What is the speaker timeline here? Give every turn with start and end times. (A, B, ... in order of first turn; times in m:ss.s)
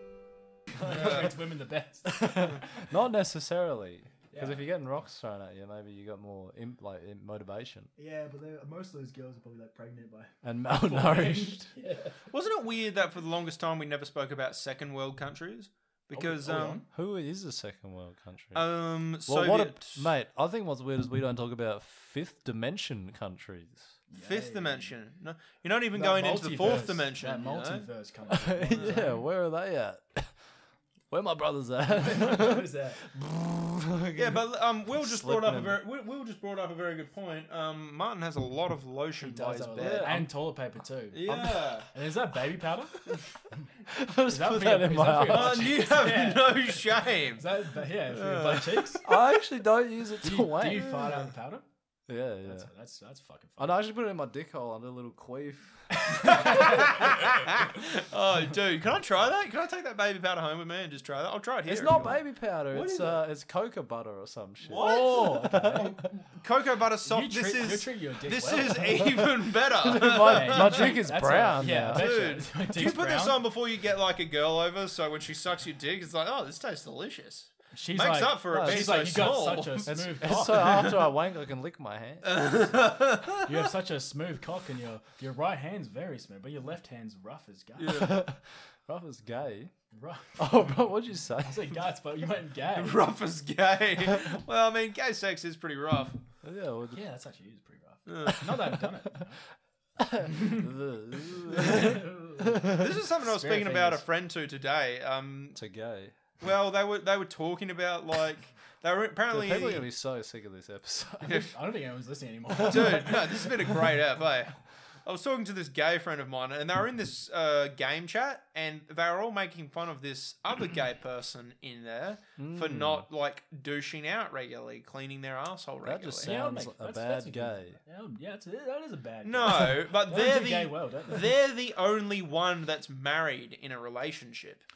0:00.8-0:02.8 A
0:00.8-0:01.2 B
0:00.9-0:01.3 C
0:02.1-0:07.9 B
0:04.3-0:04.7 A
0:08.0-0:12.2 A
0:10.4-0:11.7 B
0:12.3-0:16.8 C
0:16.1-0:16.9 A
0:16.9-0:18.7 B
0:18.5-0:20.1 C
0:19.3-0:24.0 B
0:24.1-0:25.0 A
0:24.2-0:27.9 C
0:25.9-0:29.2 A
0:28.3-0:30.4 B
0:28.8-0:29.0 C
0:31.1-0:35.8 B
0:31.9-0:33.0 A
0:34.2-0:40.2 C
0:39.2-0:43.2 A
0:39.8-0:40.3 B
0:41.1-0:41.9 C
0:41.3-0:41.7 B
0:43.9-0:45.9 B
0:44.3-0:46.8 A
0:45.2-0:49.0 C
0:47.4-0:49.1 A
0:49.0-0:51.2 B
0:50.2-0:51.6 A
0:52.1-0:52.7 B
0:52.4-0:53.8 A
0:53.6-0:57.1 B
0:55.9-0:57.1 A
0:56.2-1:03.2 C
1:01.7-1:06.1 B
1:04.7-1:11.0 C
1:04.7-1:06.0 A
1:07.0-1:09.2 A
1:09.0-1:12.4 B
1:10.1-1:13.4 A
1:11.8-1:20.7 C
1:17.7-1:20.9 A
1:18.5-1:22.7 B
1:22.2-1:23.5 C
1:23.4-1:28.1 A
1:27.8-1:28.2 C
1:27.8-1:29.7 B
1:29.9-1:30.6 A
1:30.4-1:31.8 B
1:31.4-1:33.1 A
1:32.8-1:36.2 C
1:36.4-1:37.0 B
1:36.9-1:39.4 A
1:38.1-1:38.8 C
1:40.0-1:42.9 B
1:40.3-1:40.7 A
1:41.5-1:44.0 A
1:42.7-1:45.6 C
1:45.6-1:46.1 B
1:46.4-1:49.9 C
1:49.3-1:51.4 B
1:51.2-1:53.5 A
1:51.3-1:51.5 C
1:52.6-1:53.4 B
1:52.6-2:06.3 C
2:02.4-2:03.1 B
2:05.8-2:07.8 B
2:06.2-2:11.3 A
2:09.2-2:14.6 C